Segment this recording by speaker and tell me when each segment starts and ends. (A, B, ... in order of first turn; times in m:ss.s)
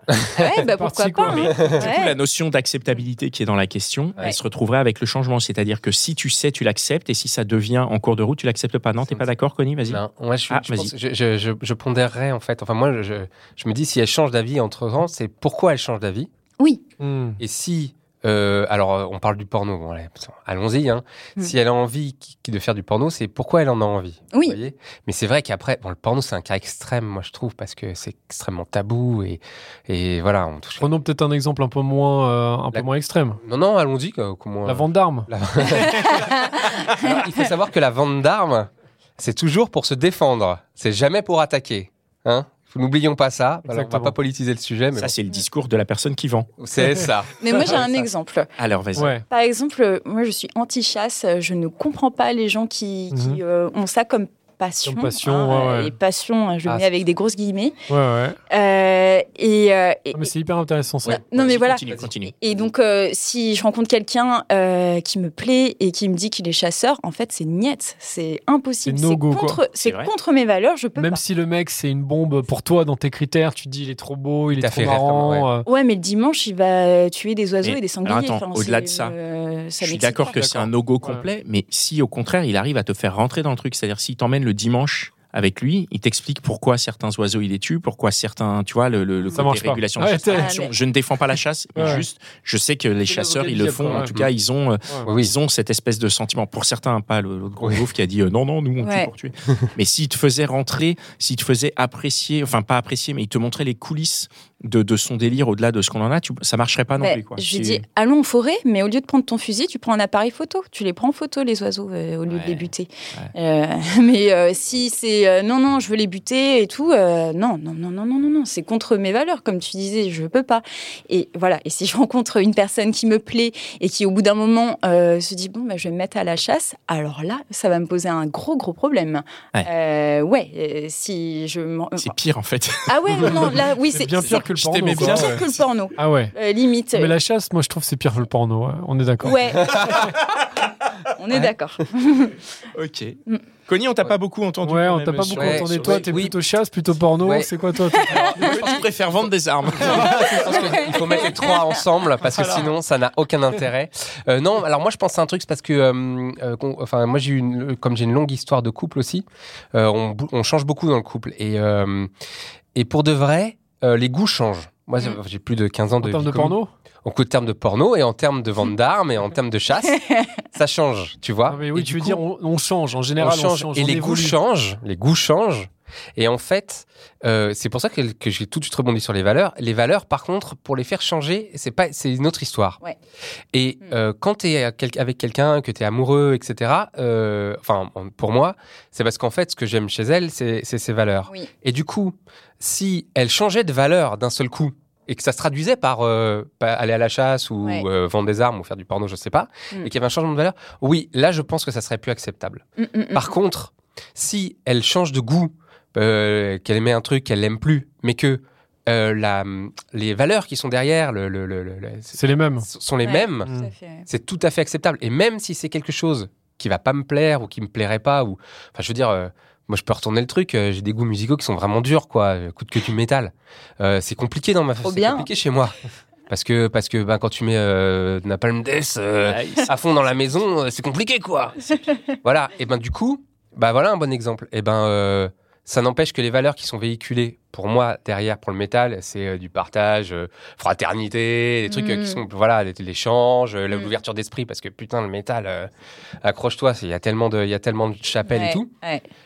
0:00.1-0:00.6 A
0:00.3-0:02.2 B
0:00.6-0:01.7 C
0:01.3-0:01.9 A
0:01.8-0:10.9 D
0:09.9-0:16.3 A
0:17.0-0:17.4 C
0:17.4-0:30.9 A
0:24.3-0:24.6 B
0:30.8-0:33.4 C
0:33.4-0:45.1 A
0:34.6-0:35.3 C
0:43.7-0:44.2 C
0:45.0-0:46.5 D
0:46.6-0:48.1 A
0:47.4-0:48.5 B
0:48.6-0:49.2 D
0:49.0-0:49.2 C
0:49.3-0:57.8 B
0:53.1-0:53.4 C
0:54.8-0:55.9 C
0:57.9-0:58.4 C
0:58.5-1:00.3 B
1:00.1-1:01.2 C
1:01.0-1:01.9 B
1:01.3-1:02.7 D
1:01.8-1:02.1 A
1:02.4-1:11.2 B
1:08.8-1:09.6 C
1:09.8-1:10.1 D
1:11.0-1:15.7 C
1:14.5-1:15.5 A
1:15.7-1:20.4 B
1:17.6-1:19.2 D
1:19.8-1:47.8 D
1:20.3-1:21.3 C
1:29.3-1:30.5 C
1:30.3-1:30.7 B
1:31.8-1:32.1 C
1:33.0-1:34.1 C
1:34.0-1:34.3 A
1:35.1-1:35.3 A
1:37.6-1:37.8 A
1:38.8-1:39.1 B
1:47.0-2:12.1 B
1:52.3-1:53.3 D
2:12.0-2:13.6 D
2:12.9-2:14.3 B
2:13.9-2:15.4 C
2:14.1-2:15.6 D
2:15.0-2:17.1 B
2:16.0-2:16.4 C
2:16.9-2:19.4 C
2:19.2-2:19.7 B
2:19.6-2:20.0 A
2:21.2-2:22.4 B
2:22.7-2:26.1 D
2:24.6-2:28.7 C
2:25.4-2:26.4 A
2:27.2-2:27.5 A
2:27.9-2:28.8 B
2:28.4-2:30.6 D
2:29.8-2:31.7 B
2:29.9-2:30.5 C
2:30.3-2:42.1 A
2:42.8-2:52.2 A
2:46.0-2:46.7 C
2:49.8-2:50.4 B
2:51.5-2:54.4 C
2:53.2-3:02.8 A
3:03.5-3:22.6 A
3:22.8-3:23.3 B
3:23.1-3:33.5 A
3:32.1-3:32.7 C
3:33.0-3:34.1 B
3:33.4-3:33.7 C
3:34.1-3:45.7 A
3:44.8-3:45.3 B
3:46.3-4:05.7 A
3:49.2-3:49.7 D
4:01.7-4:02.2 B
4:06.2-4:08.7 A
4:08.3-4:09.0 B